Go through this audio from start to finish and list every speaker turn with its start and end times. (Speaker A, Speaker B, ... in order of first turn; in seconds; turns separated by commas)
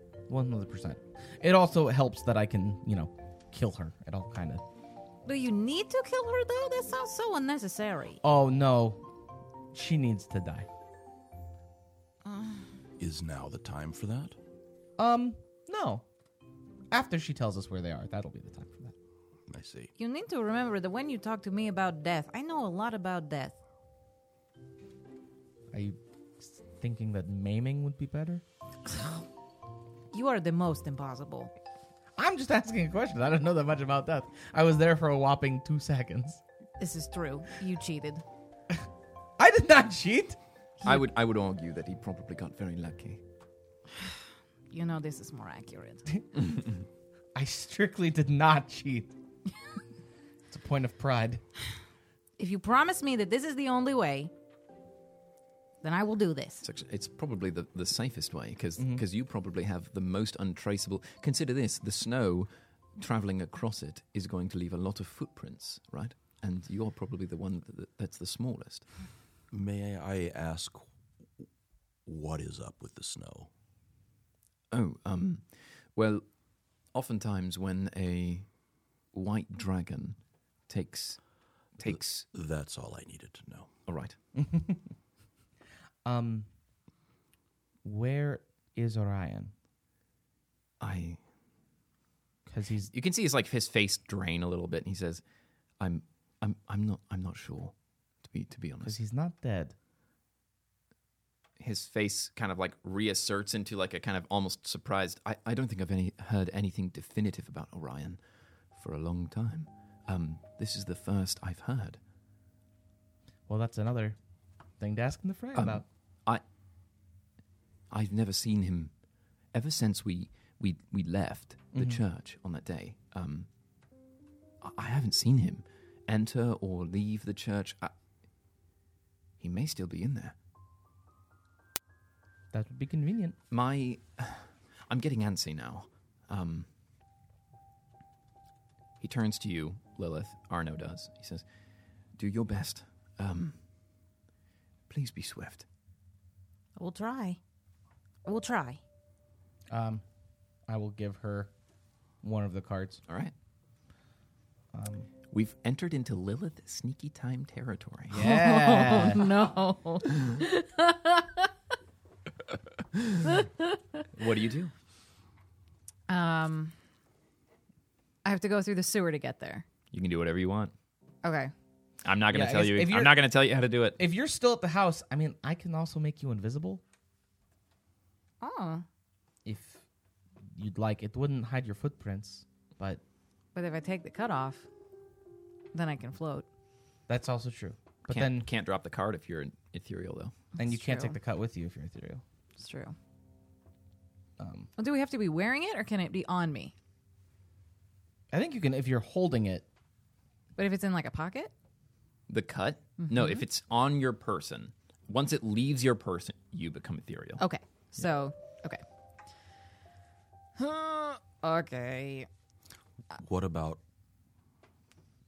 Speaker A: 0.3-4.6, Speaker B: 5.2-8.2, Speaker A: 8.2-9.1, Speaker A: 9.7-10.7, Speaker B: 12.2-12.7, Speaker C: 13.0-14.4, Speaker A: 15.0-16.1, Speaker A: 16.9-18.9, Speaker C: 19.5-19.9, Speaker B: 20.0-23.6, Speaker A: 25.7-28.4, Speaker B: 30.1-31.5, Speaker A: 32.2-36.4, Speaker B: 36.8-38.2, Speaker A: 39.4-41.0, Speaker D: 40.8-43.2, Speaker B: 44.7-46.0, Speaker A: 47.4-49.1, Speaker A: 50.5-51.4, Speaker B: 52.4-54.3, Speaker B: 55.8-56.6, Speaker D: 56.6-68.9, Speaker A: 58.8-59.0, Speaker C: 69.5-70.9, Speaker C: 72.1-73.5, Speaker D: 74.7-76.3, Speaker D: 76.9-78.5, Speaker D: 79.1-81.2, Speaker D: 81.8-82.3, Speaker C: 81.8-83.7, Speaker D: 83.9-84.2, Speaker A: 84.4-84.8, Speaker A: 86.0-86.5, Speaker A: 87.8-89.5, Speaker D: 90.8-91.2, Speaker A: 92.5-92.9, Speaker D: 92.9-95.2, Speaker D: 95.8-99.0, Speaker A: 98.8-99.8, Speaker D: 101.6-108.2, Speaker D: 108.7-112.0, Speaker A: 113.5-114.2, Speaker A: 114.8-115.8, Speaker D: 115.5-116.4, Speaker D: 117.9-118.9, Speaker D: 119.5-123.5, Speaker A: 121.7-122.0, Speaker D: 124.6-127.9, Speaker D: 129.4-130.4, Speaker A: 132.5-133.4, Speaker D: 133.5-136.7, Speaker D: 139.0-141.5, Speaker D: 142.2-143.6, Speaker D: 144.9-145.7, Speaker B: 146.8-147.4, Speaker B: 148.2-148.8, Speaker A: 149.7-150.0, Speaker A: 150.7-151.5, Speaker A: 152.2-153.0, Speaker D: 153.1-153.3, Speaker A: 154.7-155.1, Speaker D: 155.3-158.2, Speaker A: 158.1-159.3, Speaker B: 158.1-161.5, Speaker D: 164.1-164.7, Speaker B: 166.1-166.8, Speaker B: 168.2-169.7, Speaker D: 169.9-170.7, Speaker B: 171.2-171.5, Speaker D: 172.1-174.0, Speaker A: 172.3-173.2, Speaker A: 174.0-176.8, Speaker B: 178.4-178.8, Speaker A: 179.4-179.8, Speaker A: 180.6-183.0, Speaker B: 183.6-184.7, Speaker B: 185.7-186.5, Speaker A: 187.1-188.5, Speaker D: 188.1-190.4, Speaker A: 190.6-192.2, Speaker B: 190.6-191.2, Speaker B: 192.6-193.0, Speaker A: 194.4-194.7, Speaker B: 194.8-196.7, Speaker A: 198.3-199.7, Speaker B: 200.6-201.5, Speaker D: 202.3-207.4, Speaker B: 203.0-203.4, Speaker B: 207.4-208.8, Speaker B: 210.6-212.3, Speaker C: 213.2-213.8